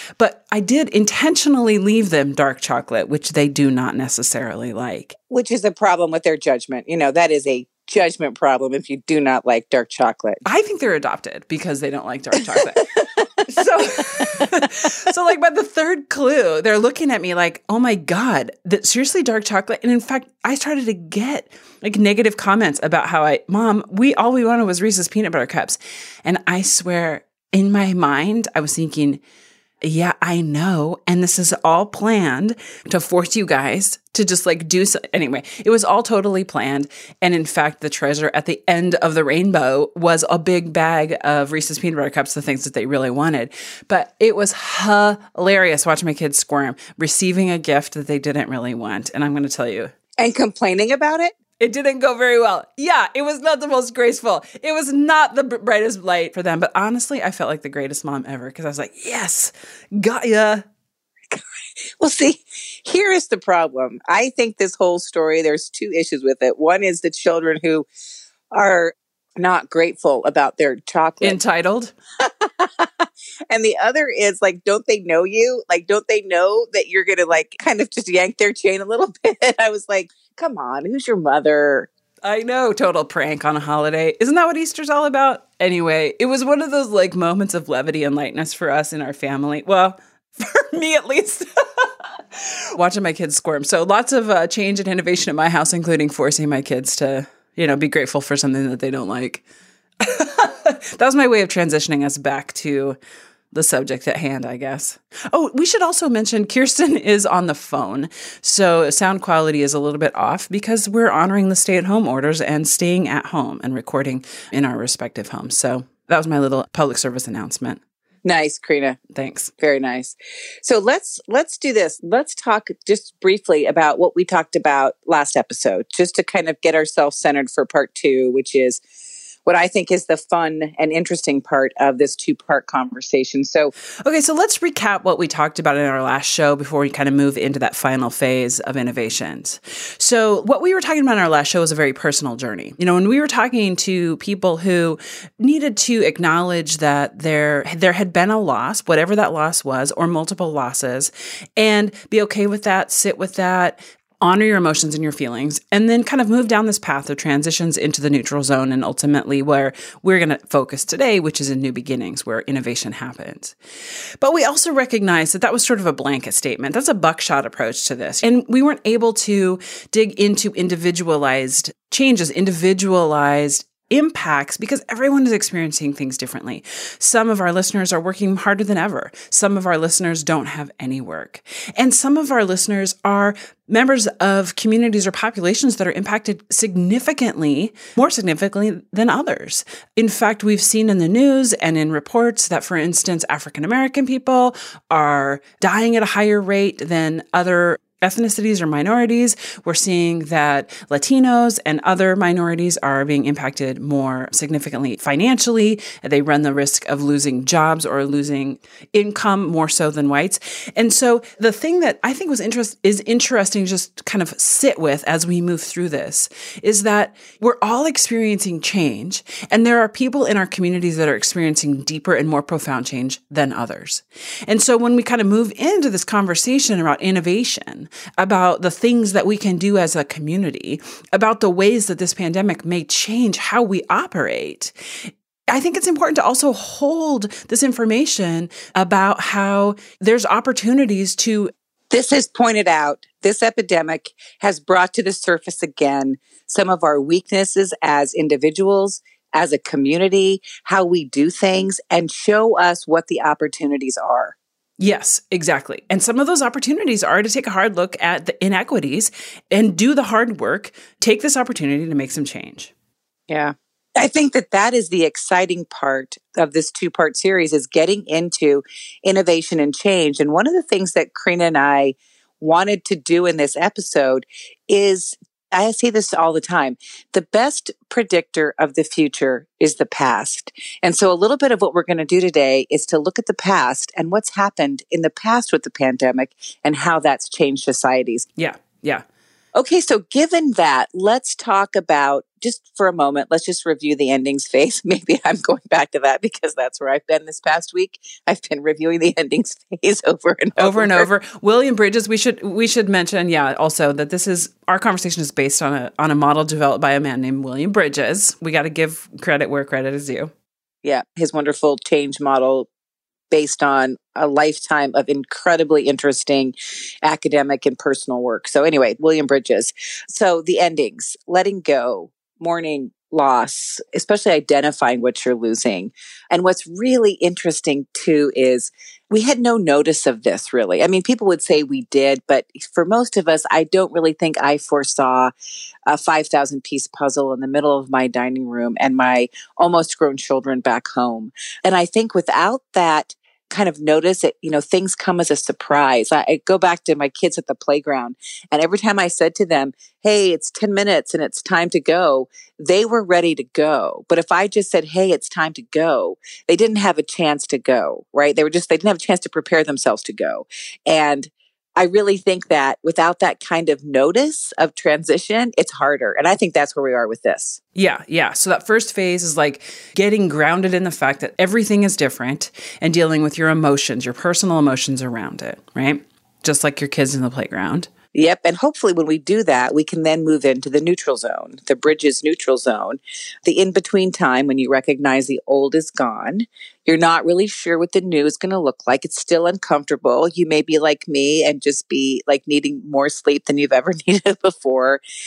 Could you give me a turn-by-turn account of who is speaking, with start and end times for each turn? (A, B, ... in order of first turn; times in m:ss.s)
0:00.2-0:05.2 A
0:05.3-0:10.4 B
0:10.4-0:12.9 A
0:12.8-0:14.6 B
0:13.4-0:29.2 A
0:29.8-0:49.9 A
0:50.2-0:51.3 B
0:51.6-1:00.6 A
1:02.0-1:07.9 B
1:08.5-1:11.4 B
1:11.2-1:12.0 A
1:12.3-1:21.9 B
1:22.2-1:31.9 A
1:32.8-1:39.4 A
1:40.0-1:43.0 A
1:43.5-1:57.8 A
1:58.2-1:59.0 B
1:59.1-1:59.5 A
1:59.6-2:08.8 B
2:09.5-2:13.7 B
2:14.0-2:43.6 A
2:44.2-3:54.7 A
3:55.5-4:01.5 A
4:01.9-4:14.4 B
4:14.8-4:22.7 A
4:23.3-4:48.2 B
4:48.4-4:49.0 A
4:49.5-5:01.1 B
5:00.6-5:10.3 A
5:10.8-5:12.7 B
5:13.3-5:35.3 B
5:35.9-6:07.6 B
6:07.8-6:17.9 A
6:18.1-6:35.0 B